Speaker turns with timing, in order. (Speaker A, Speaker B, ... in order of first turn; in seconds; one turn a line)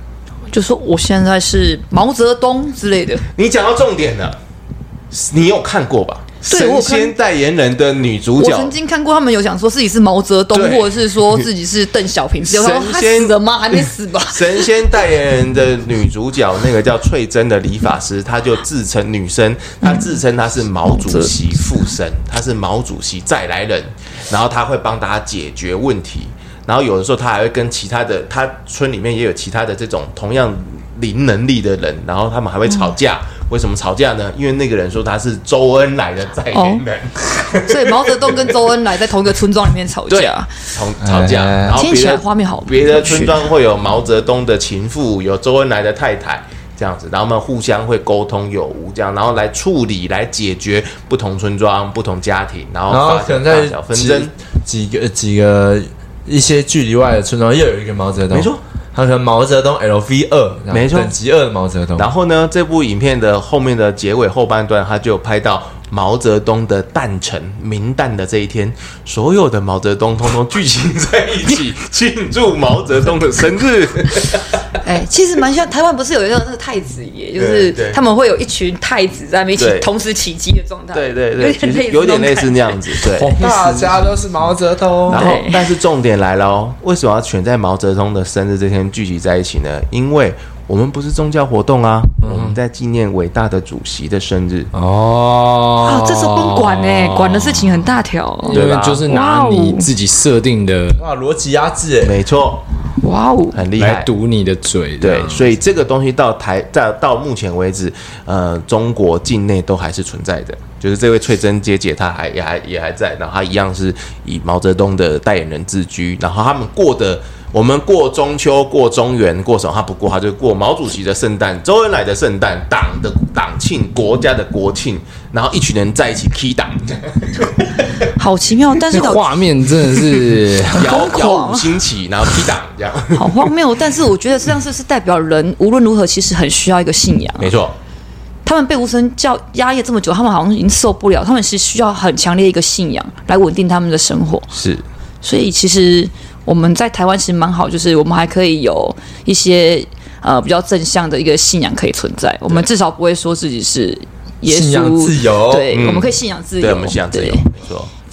Speaker A: 0.5-3.3
Speaker B: 3.4-4.4
Speaker B: 5.1-8.7
Speaker A: 6.5-7.1
Speaker A: 8.4-14.9
Speaker B: 10.5-11.5
Speaker B: 12.5-38.5
Speaker A: 19.8-20.1
Speaker A: 20.9-21.3
Speaker A: 36.5-36.9
Speaker A: 37.4-40.5
Speaker B: 40.1-54.3
Speaker C: 41.0-41.8
Speaker A: 41.7-43.4
Speaker C: 52.9-62.1
Speaker B: 58.3-58.6
Speaker B: 60.7-61.1
Speaker B: 62.0-74.5
Speaker A: 74.8-82.9
Speaker B: 77.4-78.0
Speaker B: 79.6-79.9
Speaker B: 80.9-83.4
Speaker D: 83.1-84.4
Speaker C: 83.4-85.4
Speaker A: 85.1-85.7
Speaker B: 85.1-94.7
Speaker D: 92.2-92.6
Speaker D: 94.7-101.0
Speaker A: 95.8-99.9
Speaker B: 98.5-99.0
Speaker C: 101.0-102.2
Speaker B: 102.0-102.6
Speaker A: 103.0-103.6
Speaker B: 103.5-104.1
Speaker D: 103.8-105.6
Speaker B: 105.0-128.0
Speaker A: 128.1-129.3
Speaker D: 128.9-130.9
Speaker A: 130.7-131.8
Speaker B: 130.7-133.5
Speaker A: 133.1-137.5
Speaker B: 137.4-137.7
Speaker A: 138.4-144.5
Speaker B: 144.5-144.8
Speaker A: 145.2-157.5
Speaker C: 154.4-155.7
Speaker B: 155.7-157.9